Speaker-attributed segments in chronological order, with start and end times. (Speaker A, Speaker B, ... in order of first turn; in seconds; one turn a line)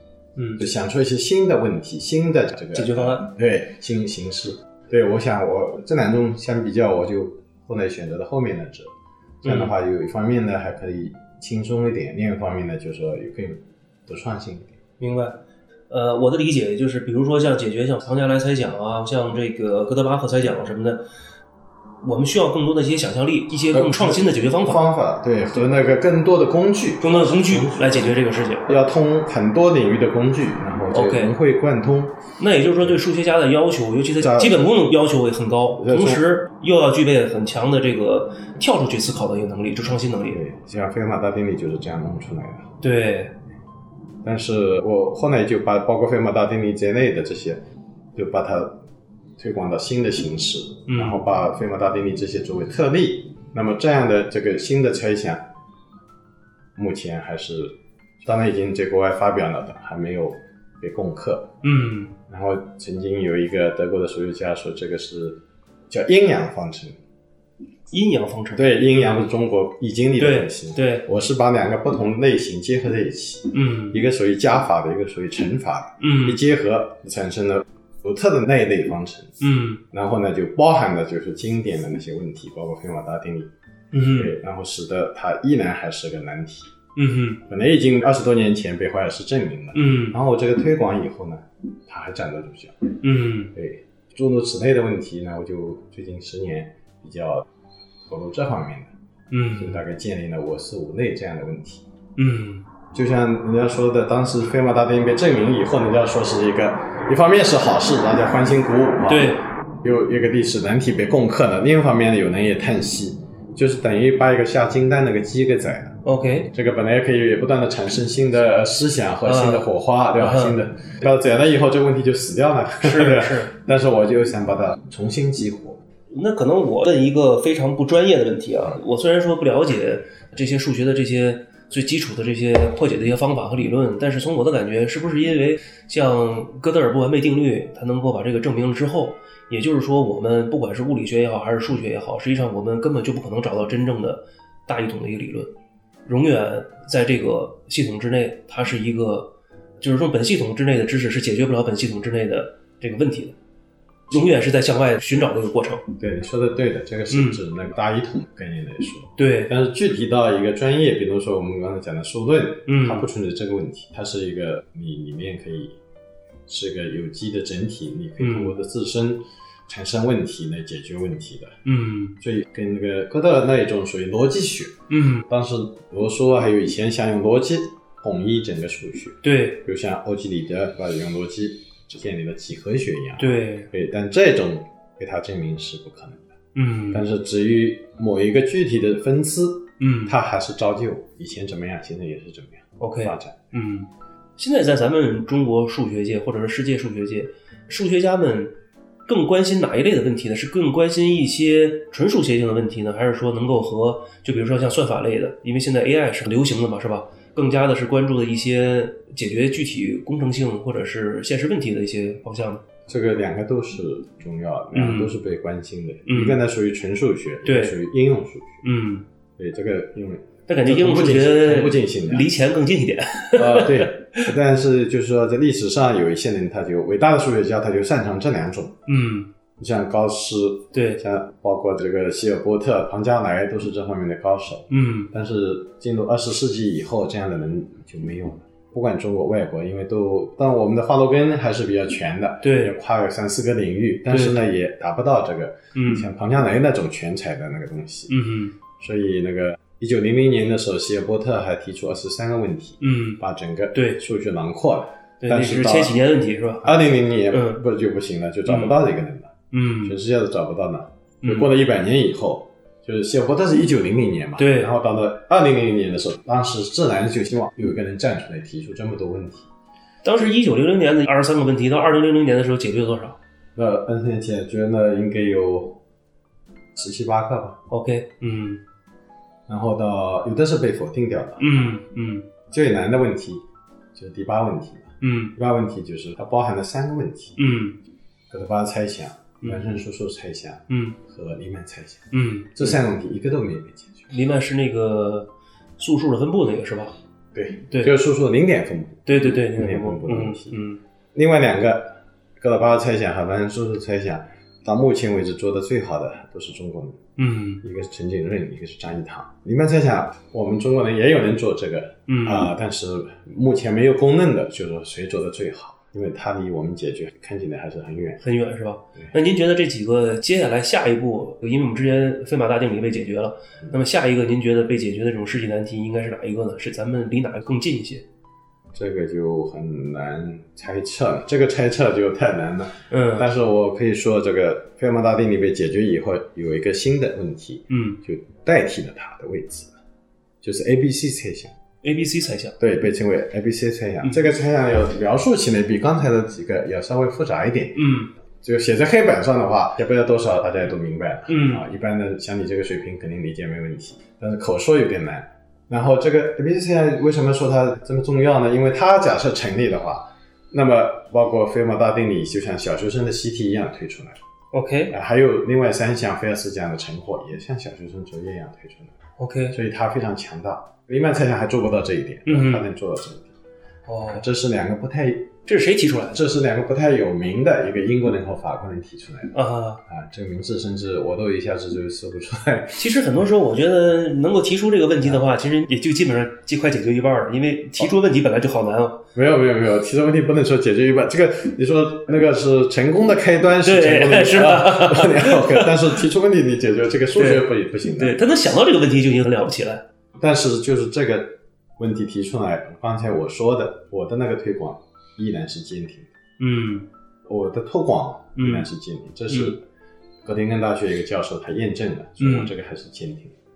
Speaker A: 0.4-0.6
Speaker B: 0.6-8.9
Speaker A: 2.7-3.3
Speaker A: 9.4-9.7
Speaker B: 9.4-14.8
Speaker A: 15.0-15.4
Speaker A: 15.9-21.0
Speaker A: 22.0-24.8
Speaker B: 23.7-32.2
Speaker A: 27.0-28.8
Speaker A: 30.9-31.4
Speaker A: 32.4-40.4
Speaker B: 34.2-34.7
Speaker B: 35.8-36.2
Speaker B: 40.3-42.8
Speaker A: 42.8-43.4
Speaker B: 44.2-47.6
Speaker B: 48.1-48.8
Speaker B: 49.4-55.5
Speaker A: 50.9-51.2
Speaker B: 56.8-61.5
Speaker A: 61.6-62.1
Speaker B: 62.3-67.0
Speaker A: 67.9-69.2
Speaker B: 68.5-83.5
Speaker A: 70.2-71.1
Speaker A: 73.5-74.0
Speaker A: 76.0-76.4
Speaker A: 79.4-79.8
Speaker A: 83.9-84.3
Speaker B: 84.1-86.8
Speaker A: 87.0-87.4
Speaker B: 87.5-93.0
Speaker A: 89.7-90.2
Speaker A: 93.0-93.5
Speaker B: 93.5-97.5
Speaker B: 98.1-98.9
Speaker A: 99.3-99.8
Speaker B: 99.5-101.8
Speaker A: 102.2-102.7
Speaker B: 102.9-125.8
Speaker A: 109.1-109.5
Speaker A: 116.0-116.5
Speaker A: 119.2-119.7
Speaker A: 120.2-120.6
Speaker A: 122.8-123.5
Speaker A: 126.1-145.5
Speaker A: 146.1-153.4
Speaker A: 154.1-155.9
Speaker B: 156.0-165.8
Speaker A: 157.1-157.4
Speaker A: 159.2-159.5
Speaker A: 162.7-163.1
Speaker B: 166.5-171.6
Speaker A: 168.2-168.5
Speaker A: 171.7-172.2
Speaker B: 172.2-186.3
Speaker A: 174.9-175.3
Speaker A: 179.2-179.6
Speaker A: 183.2-183.7
Speaker A: 186.6-187.1
Speaker B: 186.9-193.5
Speaker A: 189.8-190.2
Speaker A: 192.8-198.5
Speaker A: 199.1-212.6
Speaker B: 212.9-218.6
Speaker A: 214.7-215.2
Speaker A: 216.1-216.4
Speaker A: 217.4-217.8
Speaker A: 218.6-219.1
Speaker B: 219.4-222.3
Speaker A: 220.5-224.3
Speaker B: 223.4-228.8
Speaker A: 228.9-229.3
Speaker B: 229.6-248.1
Speaker A: 230.7-231.0
Speaker A: 234.7-235.1
Speaker A: 242.4-242.8
Speaker A: 244.1-244.4
Speaker A: 245.8-246.1
Speaker A: 248.1-248.6
Speaker B: 248.8-256.0
Speaker A: 252.8-253.2
Speaker A: 253.8-254.0
Speaker A: 255.2-257.6
Speaker B: 256.6-269.5
Speaker A: 258.5-258.8
Speaker A: 259.5-260.0
Speaker A: 261.2-261.5
Speaker A: 264.4-264.7
Speaker A: 270.0-273.2
Speaker B: 273.6-275.8
Speaker B: 276.7-277.6
Speaker A: 277.7-278.6
Speaker B: 279.5-281.8
Speaker A: 281.4-282.3
Speaker B: 282.5-287.4
Speaker A: 285.0-285.4
Speaker A: 287.4-287.8
Speaker B: 288.3-294.1
Speaker A: 289.4-289.7
Speaker A: 290.7-291.0
Speaker A: 292.1-292.7
Speaker A: 294.1-296.9
Speaker B: 297.3-300.6
Speaker A: 297.7-297.9
Speaker A: 299.1-300.8
Speaker B: 301.1-307.0
Speaker A: 307.2-307.6
Speaker B: 307.6-318.2
Speaker A: 312.1-312.5
Speaker A: 318.2-328.1
Speaker B: 328.7-339.8
Speaker A: 332.9-333.3
Speaker A: 337.7-338.0
Speaker B: 340.4-341.6
Speaker A: 341.8-342.6
Speaker B: 342.6-364.2
Speaker A: 347.8-348.1
Speaker A: 351.3-351.6
Speaker A: 364.5-364.9
Speaker B: 364.9-369.0
Speaker A: 369.2-369.6
Speaker B: 369.5-373.4
Speaker A: 372.3-372.7
Speaker A: 373.9-374.2
Speaker B: 374.1-375.3
Speaker A: 375.5-376.2
Speaker B: 376.1-382.9
Speaker A: 379.3-379.8
Speaker A: 382.8-389.0
Speaker B: 389.1-398.2
Speaker A: 393.6-395.9
Speaker A: 397.1-399.9
Speaker B: 400.2-406.1
Speaker A: 406.4-406.9
Speaker B: 407.3-409.6
Speaker A: 408.4-408.7
Speaker A: 409.3-409.6
Speaker B: 410.2-413.4
Speaker A: 412.2-412.5